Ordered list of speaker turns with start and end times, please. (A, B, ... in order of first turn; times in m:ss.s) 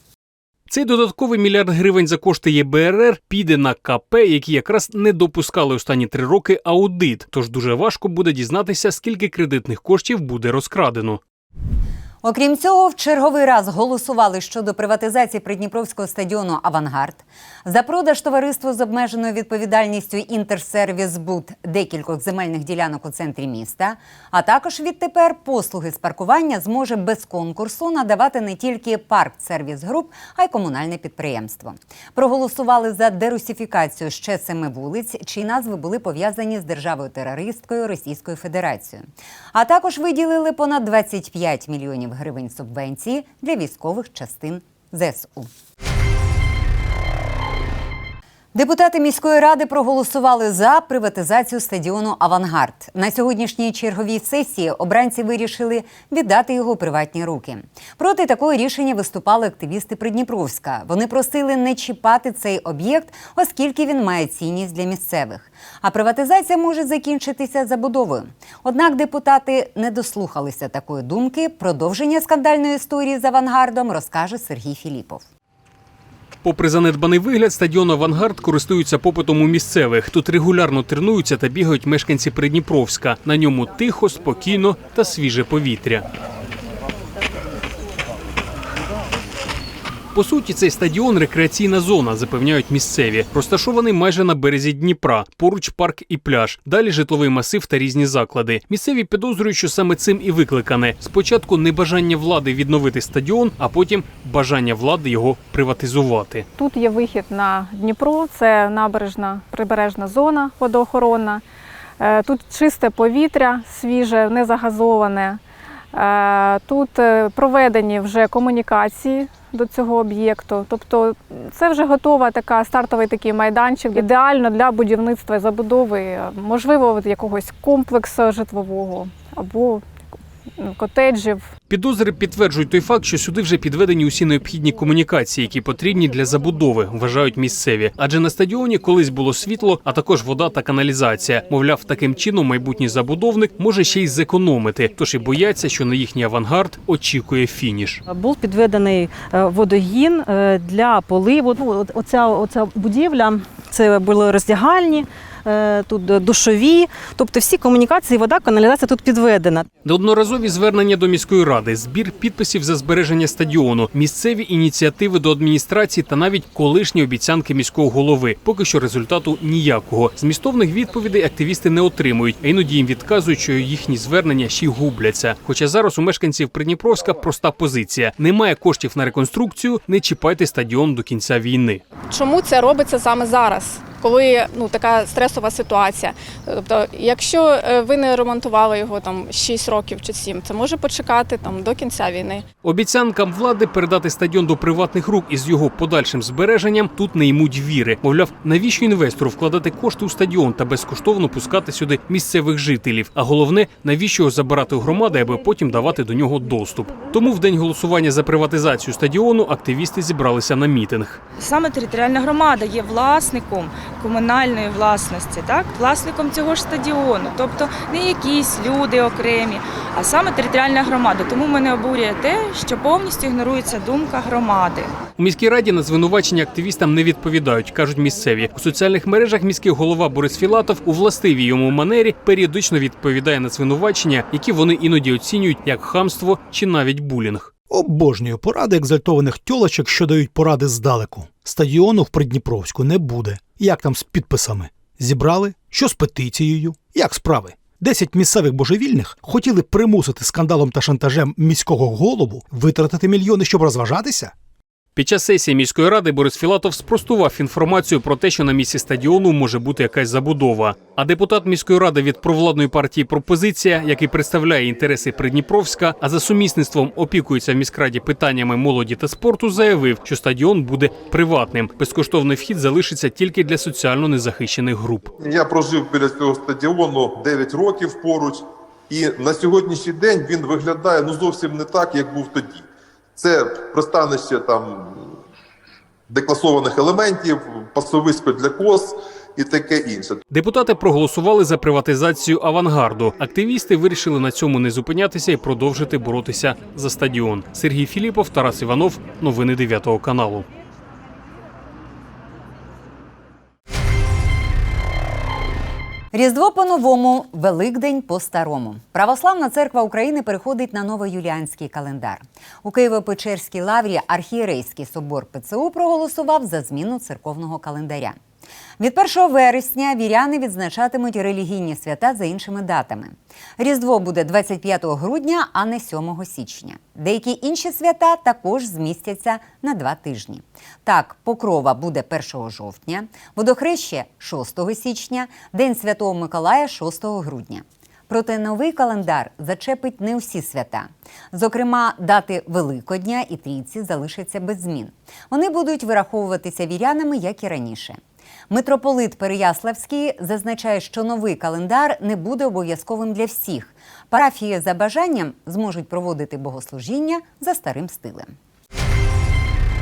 0:00.7-0:11.2 A
0:12.2-0:45.5 B
0:48.5-1:15.2 B
1:16.4-1:26.0 A
1:30.1-1:46.5 A
1:46.6-1:51.4 C
1:52.0-1:55.4 C
1:55.9-2:09.8 C
2:10.6-2:11.5 C
2:11.7-2:28.0 A
2:28.1-2:39.7 D
2:39.8-3:01.8 A
3:02.1-3:12.4 C
3:12.6-3:31.2 A
3:31.4-3:44.9 E
3:45.2-3:57.5 A
3:57.7-4:14.3 F
4:14.9-4:35.1 A
4:35.2-4:45.2 G
4:46.1-4:50.2 G
4:50.3-5:00.5 A
5:06.1-5:18.2 B
5:18.8-5:48.0 B
5:48.5-5:58.3 B